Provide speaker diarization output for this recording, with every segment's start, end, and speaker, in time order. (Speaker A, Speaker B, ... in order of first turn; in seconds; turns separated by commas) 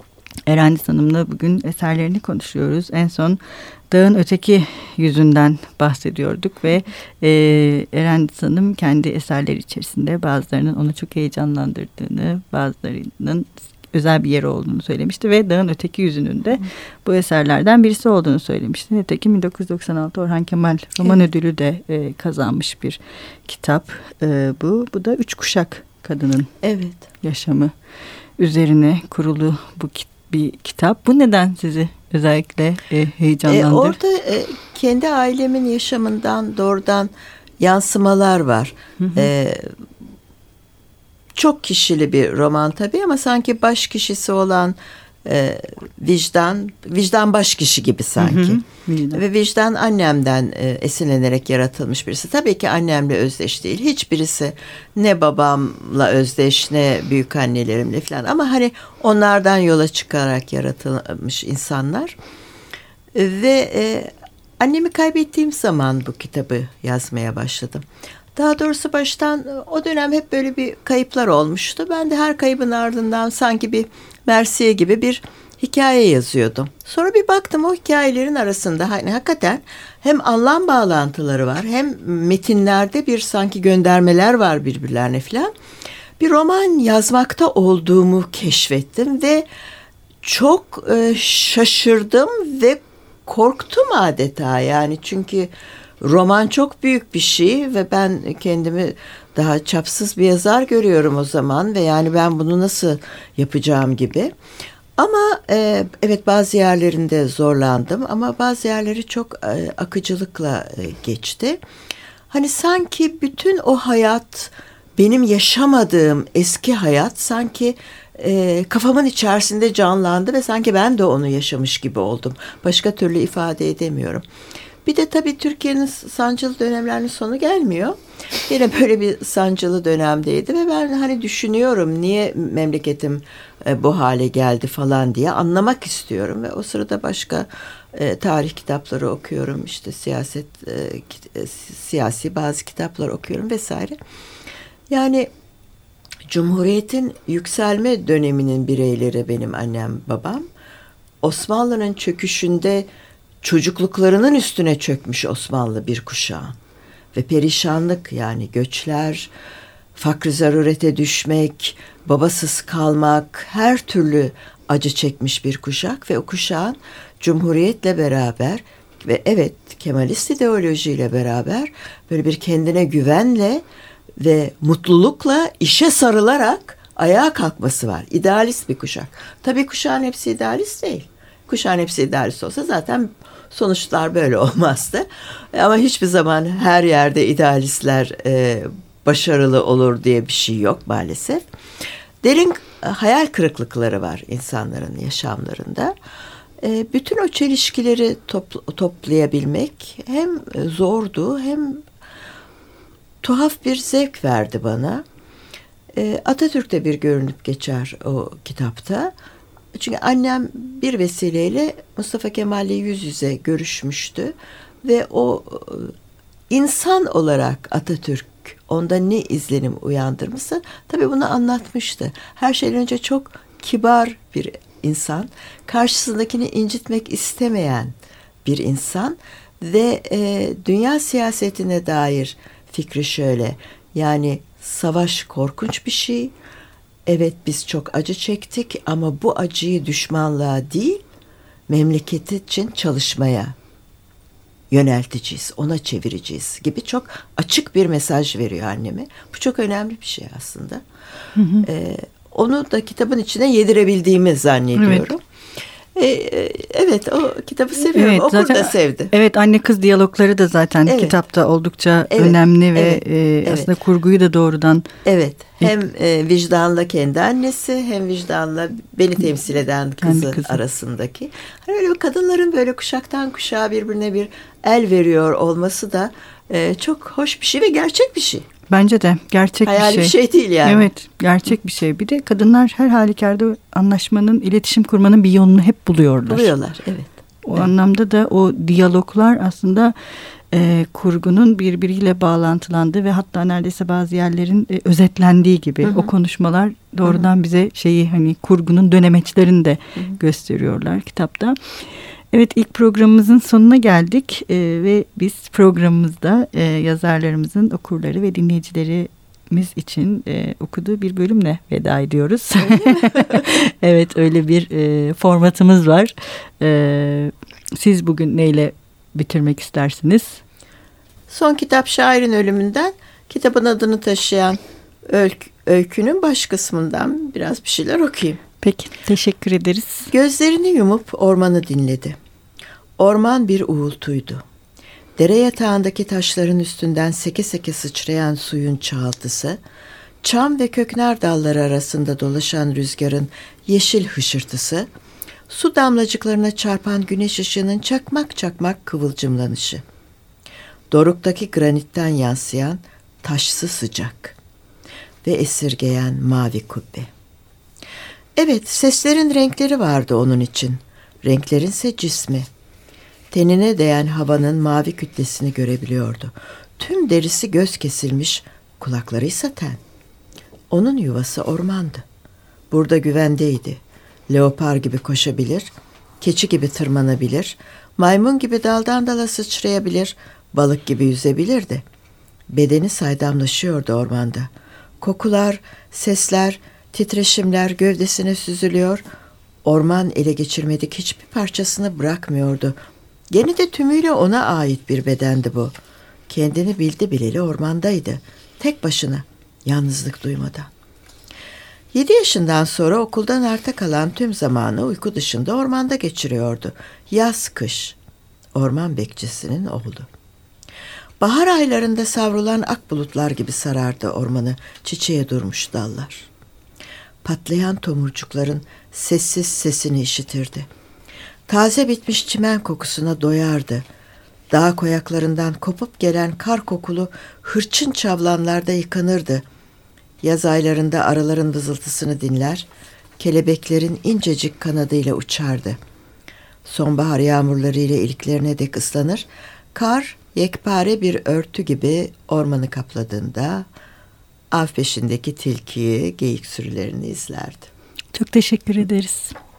Speaker A: 0.5-26.5, Speaker B: 26.6-27.1, Speaker A: 27.2-27.7, Speaker A: 28.4-34.0, Speaker B: 33.5-39.8, Speaker A: 39.0-39.3, Speaker B: 41.3-48.6, Speaker A: 48.2-49.2, Speaker B: 49.1-62.2, Speaker B: 63.1-85.5, Speaker B: 86.2-89.5, Speaker B: 90.2-104.3, Speaker B: 105.0-111.6, Speaker B: 112.3-124.2, Speaker B: 124.8-143.9, Speaker B: 144.9-145.3, Speaker B: 146.3-150.4, Speaker B: 151.2-152.9, Speaker B: 153.4-156.6, Speaker B: 157.1-159.3, Speaker B: 159.9-173.6, Speaker B: 174.2-191.5, Speaker B: 192.2-195.9, Speaker B: 196.6-201.8, Speaker B: 203.2-205.0, Speaker B: 205.9-209.1, Speaker B: 209.7-215.9, Speaker B: 216.5-227.9, Speaker B: 228.4-236.3, Speaker B: 237.1-241.0, Speaker B: 241.7-243.6, Speaker B: 244.7-250.8, Speaker A: 251.3-251.7, Speaker B: 251.6-255.2, Speaker A: 254.8-255.1, Speaker B: 255.9-259.1, Speaker A: 257.8-264.9, Speaker B: 260.9-261.2, Speaker B: 262.1-263.7, Speaker B: 265.0-278.4, Speaker A: 270.0-270.6, Speaker A: 278.7-286.5, Speaker B: 279.6-280.9, Speaker B: 286.3-287.7, Speaker A: 287.4-289.9, Speaker A: 290.5-301.6, Speaker B: 295.8-296.1, Speaker A: 302.3-320.4, Speaker B: 312.6-313.5, Speaker B: 321.3-328.4, Speaker A: 328.6-330.1, Speaker B: 330.1-332.2, Speaker B: 333.0-334.4, Speaker B: 335.2-339.6, Speaker B: 340.2-344.9, Speaker B: 345.5-349.8, Speaker B: 350.9-354.4, Speaker B: 355.2-357.1, Speaker B: 358.4-362.5, Speaker B: 363.3-369.8, Speaker B: 370.7-372.0, Speaker B: 372.7-381.8, Speaker B: 382.5-384.5, Speaker B: 385.0-389.0, Speaker B: 389.6-392.8, Speaker B: 393.3-395.7, Speaker B: 396.3-400.7, Speaker B: 401.9-408.0, Speaker B: 408.5-410.1, Speaker B: 411.2-416.3, Speaker B: 417.2-420.7, Speaker B: 421.5-423.9, Speaker B: 424.5-429.4, Speaker B: 430.2-432.7, Speaker B: 433.2-435.8, Speaker B: 436.6-443.7, Speaker B: 444.5-447.7, Speaker A: 448.1-449.3